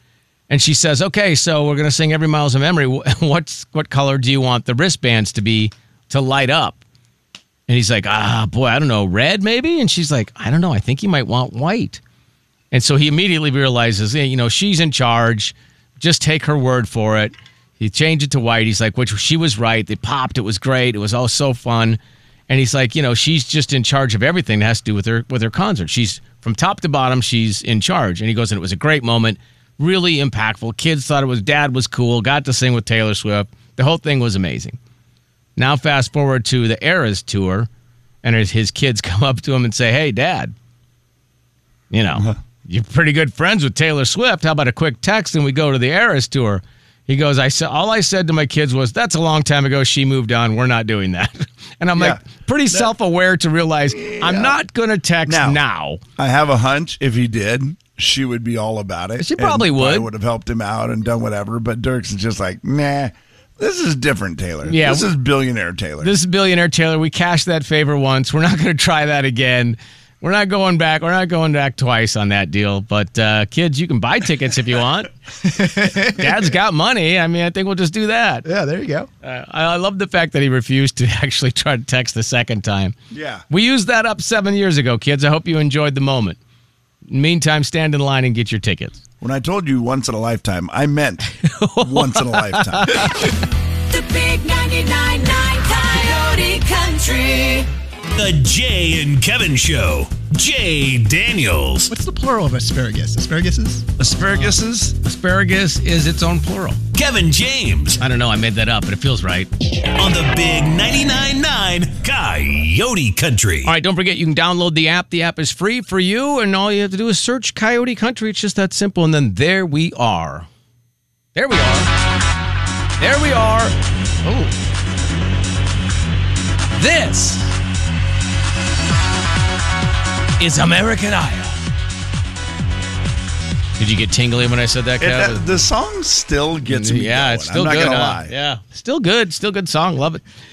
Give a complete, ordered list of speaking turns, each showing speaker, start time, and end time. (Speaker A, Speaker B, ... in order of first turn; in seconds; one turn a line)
Speaker A: 0.5-6.8
Speaker A: 7.7-12.0
Speaker A: 12.7-34.8
Speaker A: 35.6-37.7
Speaker A: 38.2-40.5
Speaker A: 41.9-56.0
Speaker B: 42.1-42.4
Speaker B: 51.9-52.9
Speaker B: 53.9-54.6
Speaker B: 55.2-55.6
Speaker B: 56.2-66.2
Speaker A: 59.2-60.1
Speaker A: 64.6-65.1
Speaker A: 66.0-75.1
Speaker C: 75.4-76.3
Speaker A: 76.1-78.5
Speaker C: 78.4-79.1
Speaker A: 79.2-82.9
Speaker B: 83.1-83.4
Speaker A: 83.5-86.4
Speaker A: 87.1-89.0
Speaker B: 89.2-93.1
Speaker A: 91.4-93.3
Speaker D: 93.9-97.7
Speaker E: 98.2-101.9
Speaker C: 101.9-103.9
Speaker B: 104.0-105.0
Speaker A: 104.1-106.8
Speaker E: 106.9-108.0
Speaker A: 108.0-109.5
Speaker E: 109.8-113.7
Speaker A: 113.7-120.5
Speaker A: 121.3-121.9
Speaker A: 123.0-123.7
Speaker A: 124.2-124.5
Speaker A: 126.8-127.6
Speaker A: 130.4-131.6
Speaker A: 133.8-135.4
Speaker B: 135.0-138.3
Speaker A: 136.7-140.2